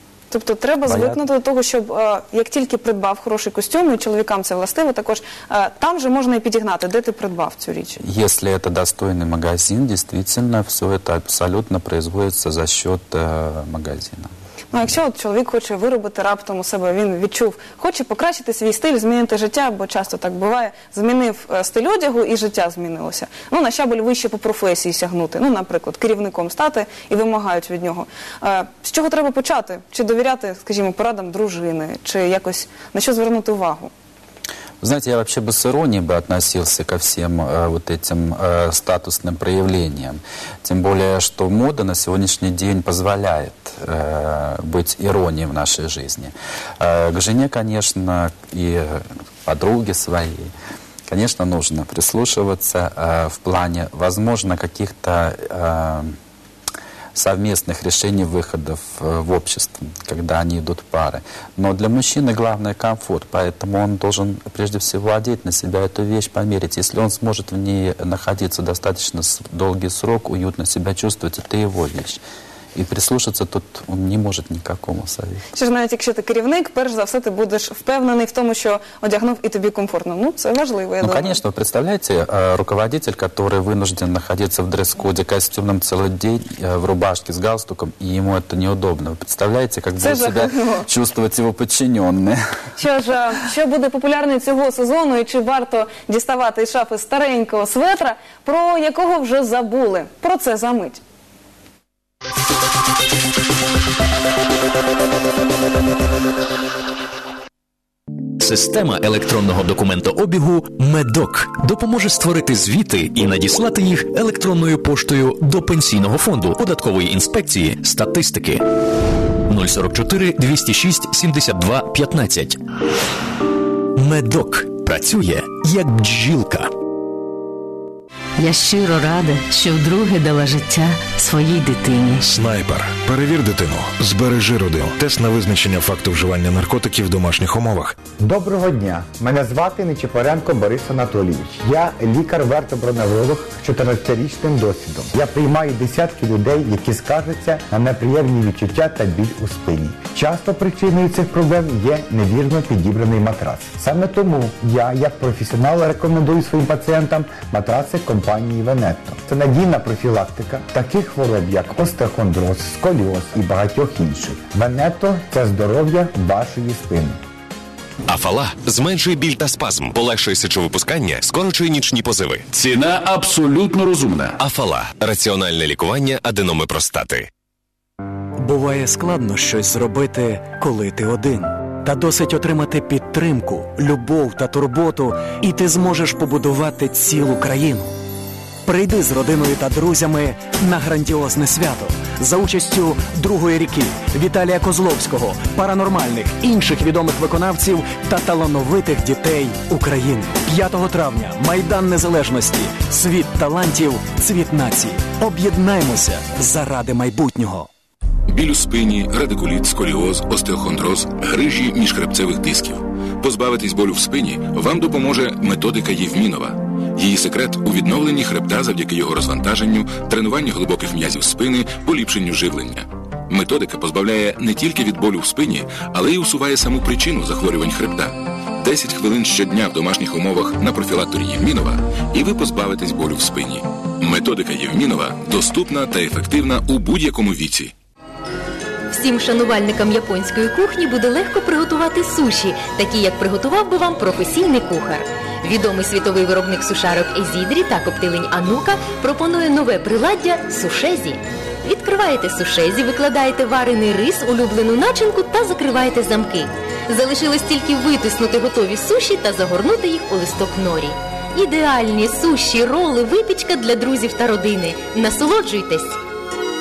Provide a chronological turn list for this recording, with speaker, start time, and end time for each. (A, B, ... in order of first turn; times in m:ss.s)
0:00.3-0:08.0 A
0:00.8-0:01.2 B
0:08.0-0:14.3 B
0:14.7-0:33.9 A
0:34.8-0:50.5 B
0:51.1-0:56.2 B
0:57.1-1:12.2 B
1:12.7-1:15.4 B
1:15.5-1:21.4 A
1:21.0-1:32.4 B
1:30.0-1:30.8 A
1:32.8-1:41.0 A
1:48.4-1:58.6 C
1:59.5-2:02.6 C
2:04.0-2:06.7 C
2:08.4-2:12.2 D
2:12.2-2:18.0 E
2:18.2-2:47.2 F
2:48.1-2:52.5 G
2:53.0-2:53.4 E
2:54.4-2:57.3 G
2:58.4-3:07.9 H
3:08.6-3:27.7 H
3:28.3-3:57.7 I
3:58.9-4:26.0 J